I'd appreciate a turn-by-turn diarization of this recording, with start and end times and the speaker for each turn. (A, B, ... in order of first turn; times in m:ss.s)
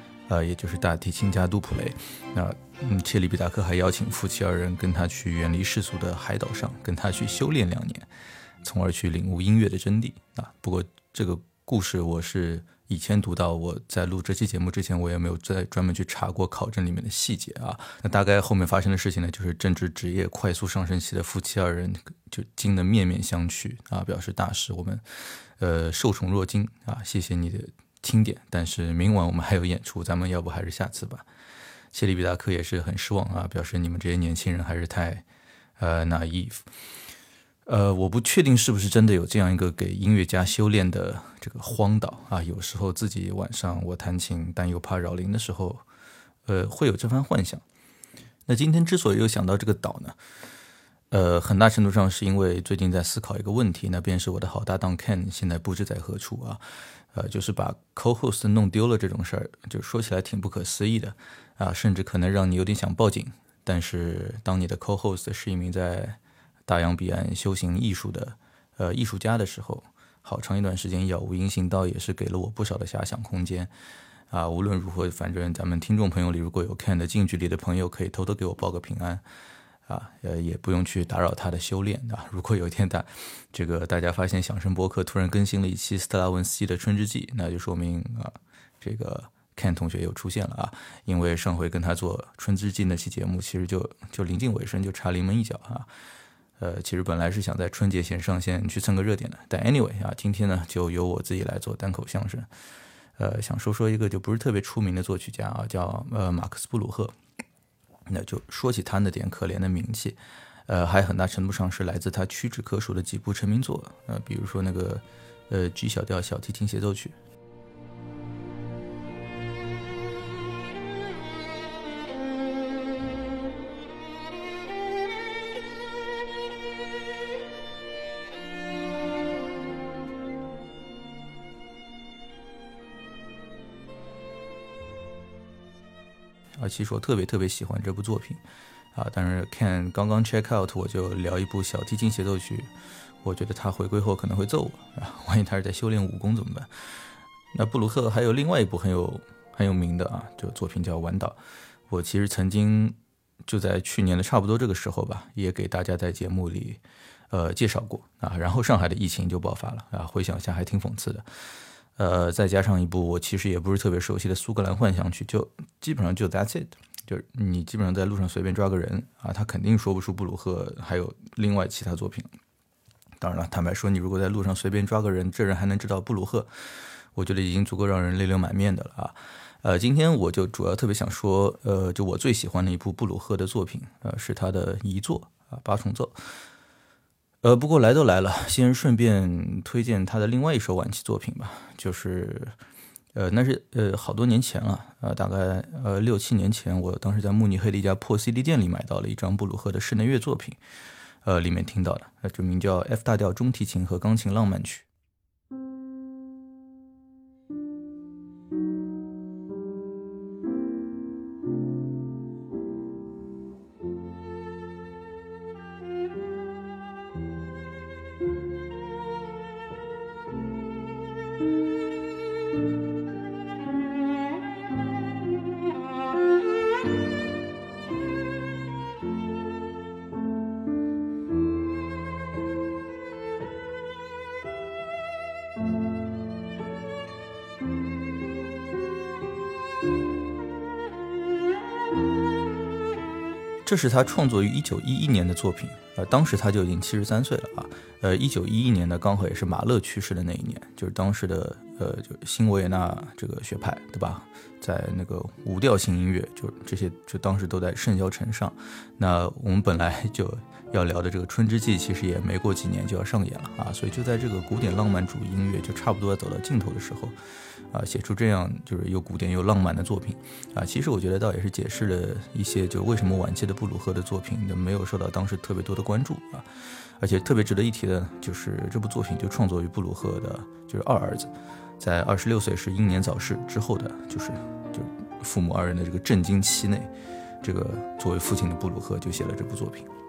0:00.3-0:08.1 A
0:08.6-0:25.0 A
0:25.6-0:31.2 A
0:31.9-0:35.2 A
0:35.8-0:36.6 A
0:37.7-0:45.8 A
0:46.5-0:47.6 A
0:48.5-0:50.2 A
0:51.1-0:56.6 A
0:57.1-1:13.7 A
1:14.3-1:19.2 A
1:19.9-1:35.9 A
1:36.6-1:42.5 A
1:43.2-1:47.1 A
1:48.1-1:57.2 A
2:16.6-2:18.4 A
2:18.9-2:22.7 A
2:23.2-2:26.7 A
2:27.5-2:31.4 A
2:31.9-2:36.8 A
2:37.3-2:41.2 A
2:42.0-2:52.3 A
2:53.2-2:56.5 A
2:57.2-3:06.2 A
3:07.4-3:12.6 A
3:13.2-3:20.6 A
3:21.2-3:24.9 A
4:03.6-4:27.2 A
4:27.7-4:36.5 A
4:37.0-4:46.9 A
4:47.4-4:49.9 A